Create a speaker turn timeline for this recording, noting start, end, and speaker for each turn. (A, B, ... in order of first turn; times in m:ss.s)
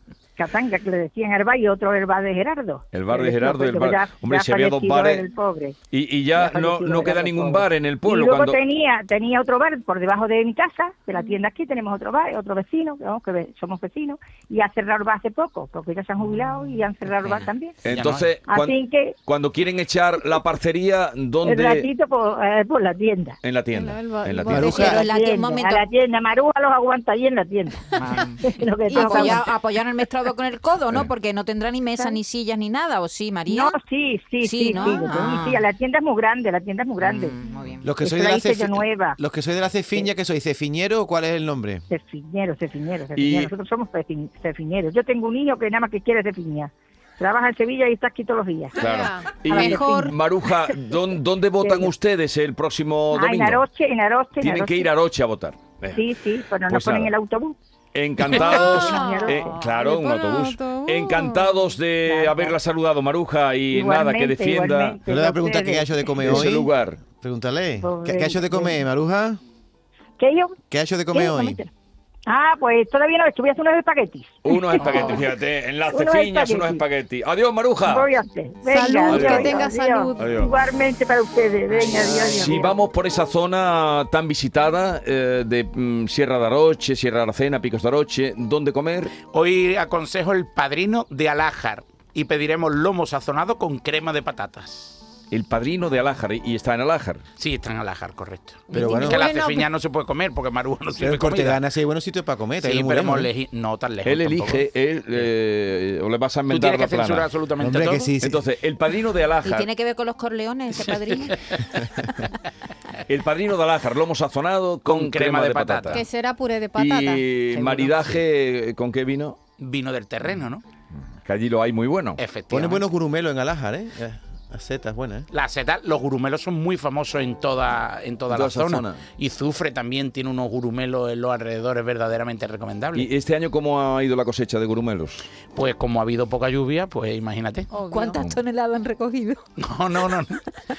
0:00.4-0:05.8 A
0:02.9-0:05.2 B
0:05.9-0:08.6 B
0:06.3-0:17.8 A
0:17.2-0:17.4 C
0:17.8-0:21.9 B
0:17.8-0:18.3 D
0:18.5-0:19.2 A
0:21.4-0:23.4 A
0:23.4-0:25.0 B
0:23.7-0:25.0 E
0:24.5-0:25.0 F
0:24.7-0:27.8 A
0:25.0-0:25.8 C
0:27.9-0:33.8 C
0:28.4-0:29.5 A
0:28.9-0:29.2 E
0:33.5-0:37.4 A
0:34.4-0:35.6 C
0:34.8-0:35.2 E
0:37.0-0:37.9 C
0:37.8-0:41.8 F
0:38.0-0:39.2 A
0:41.9-0:48.8 A
0:43.1-0:43.5 B
0:48.8-0:53.6 B
0:48.8-0:50.1 E
0:49.5-0:50.1 A
0:51.6-0:51.9 A
0:53.1-0:54.9 A
0:54.4-0:57.1 B
0:55.9-0:57.6 A
0:57.9-1:05.0 B
0:58.2-0:59.6 A
0:58.7-1:01.6 E
1:02.0-1:02.5 A
1:03.7-1:06.6 A
1:05.0-1:09.4 F
1:06.2-1:07.0 B
1:07.8-1:08.8 A
1:10.2-1:10.6 A
1:10.7-1:11.6 F
1:11.1-1:11.7 A
1:12.3-1:15.2 A
1:14.4-1:18.1 B
1:15.9-1:16.8 A
1:17.8-1:22.8 A
1:18.6-1:20.3 E
1:19.1-1:19.6 B
1:20.2-1:20.5 B
1:21.7-1:29.1 B
1:29.3-1:35.0 D
1:35.3-1:37.2 B
1:37.4-1:41.6 D
1:38.7-1:39.3 F
1:38.7-1:39.7 E
1:41.0-1:43.3 F
1:42.6-1:45.3 D
1:44.0-1:47.3 B
1:46.5-1:48.1 D
1:47.6-1:48.4 F
1:48.2-1:49.7 B
1:49.4-1:51.4 C
1:53.1-1:56.0 B
1:54.8-1:56.0 D
1:55.9-1:57.3 E
1:56.7-1:59.4 B
1:57.5-1:58.1 C
1:59.6-2:00.6 D
2:01.2-2:02.2 B
2:02.2-2:02.8 D
2:02.5-2:05.3 F
2:05.3-2:13.1 D
2:08.3-2:09.0 B
2:12.9-2:15.3 B
2:15.5-2:17.7 D
2:17.7-2:18.4 E
2:17.8-2:19.4 C
2:18.1-2:18.4 B
2:19.6-2:20.4 D